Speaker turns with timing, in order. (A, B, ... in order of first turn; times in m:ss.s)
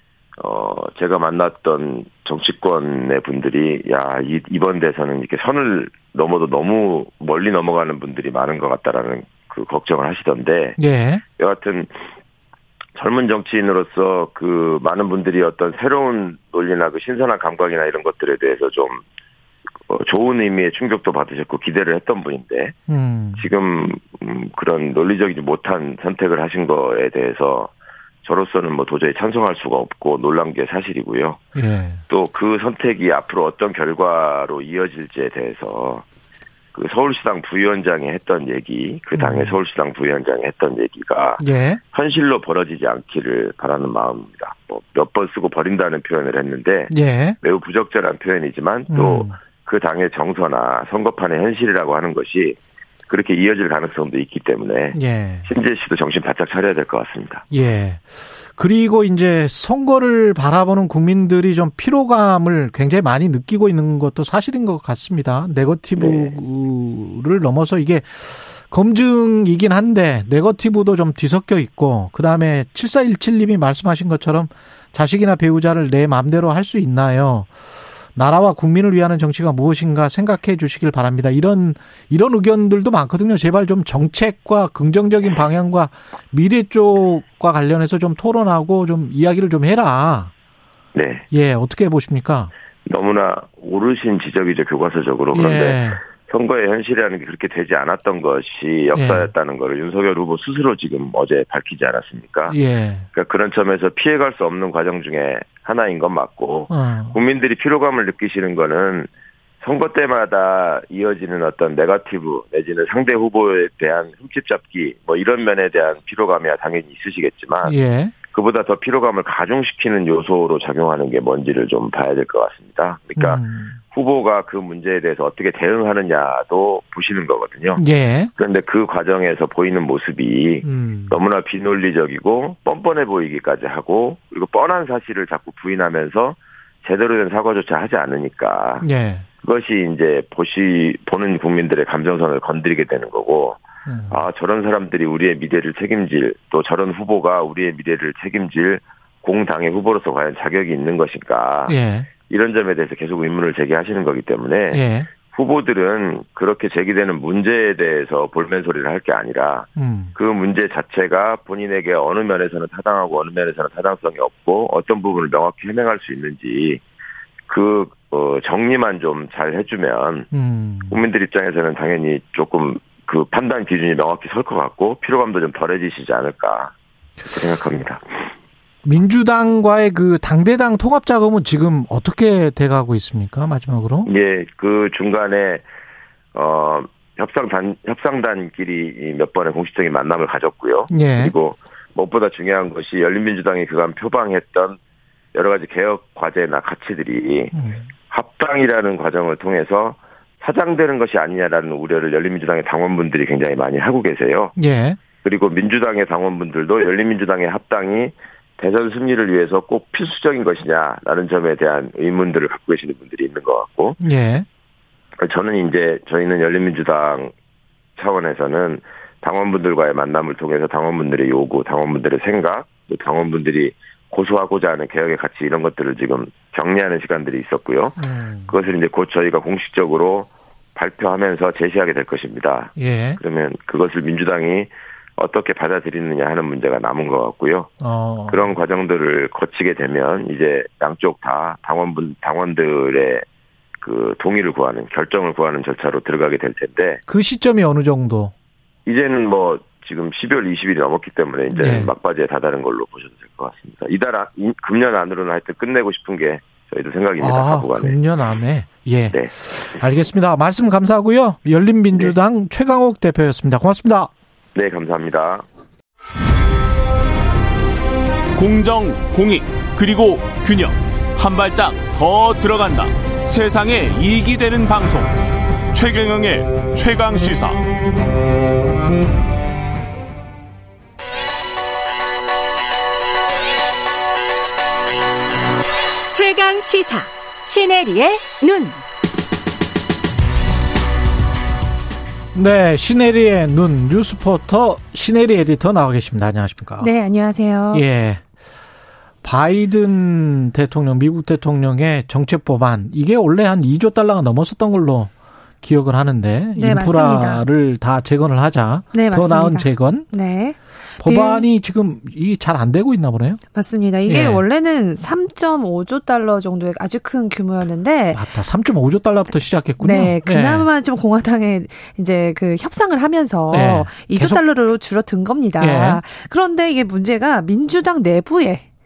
0:00.4-0:10.8 A
0:10.8-0:11.2 B
0:11.4-0:11.9 A
0:13.0-0:19.0 A
0:19.9-0:22.8 A
0:22.9-0:23.4 B
0:23.4-0:27.7 A
0:28.2-0:31.4 A
0:31.6-0:32.0 B
0:32.1-0:36.0 A
0:36.7-0:52.6 A
0:39.2-0:39.6 B
0:41.4-0:41.8 B
0:46.9-0:47.4 B
0:48.9-0:49.4 B
0:53.1-0:57.4 A
0:54.9-0:55.5 B
0:57.5-1:17.5 B
1:06.0-1:06.3 A
1:18.2-1:30.3 B
1:30.9-1:31.2 A
1:31.3-1:32.5 B
1:32.9-1:42.6 A
1:35.3-1:36.0 B
1:39.0-1:39.3 B
1:42.5-1:43.1 B
1:43.1-1:49.1 A
1:46.7-1:47.2 B
1:49.6-2:07.8 A
1:57.6-1:58.1 B
2:03.2-2:03.8 B
2:07.8-2:08.3 B
2:08.4-2:18.9 A
2:10.6-2:11.2 B
2:18.8-2:19.3 B
2:19.4-2:46.8 A
2:23.9-2:24.2 B
2:31.7-2:32.1 B
2:34.7-2:35.1 B
2:39.8-2:40.1 B
2:47.5-2:50.3 A
2:50.3-2:51.0 B
2:50.9-2:56.7 A
2:57.3-2:58.0 A
2:58.8-3:04.1 B
3:04.0-3:05.6 A
3:06.4-3:14.8 A
3:10.9-3:11.3 B
3:15.3-3:17.6 A
3:17.5-3:17.9 B
3:18.1-3:24.5 A
3:24.6-3:25.0 B
3:25.2-3:34.0 A
3:34.0-3:34.5 B
3:35.2-3:37.3 A
3:38.0-3:57.7 A
3:48.0-3:48.5 B
3:52.8-3:53.2 B
3:57.8-3:58.4 B
3:58.3-4:03.2 A
4:03.8-4:07.0 A
4:07.1-4:08.3 B
4:08.9-4:18.0 A
4:11.6-4:11.9 B
4:17.2-4:24.1 B
4:24.6-4:25.4 A
4:28.4-4:35.1 C
4:35.7-4:37.6 C
4:46.1-4:48.8 D
4:52.3-4:56.9 B
4:56.8-4:57.8 E
4:57.7-4:58.2 B
4:59.2-5:10.1 B
5:06.6-5:07.5 E
5:08.9-5:11.5 E
5:11.0-5:13.4 B
5:13.5-5:18.2 E
5:14.1-5:14.4 B
5:18.1-5:20.7 B
5:19.8-5:28.7 E
5:23.5-5:24.4 B
5:25.6-5:26.0 B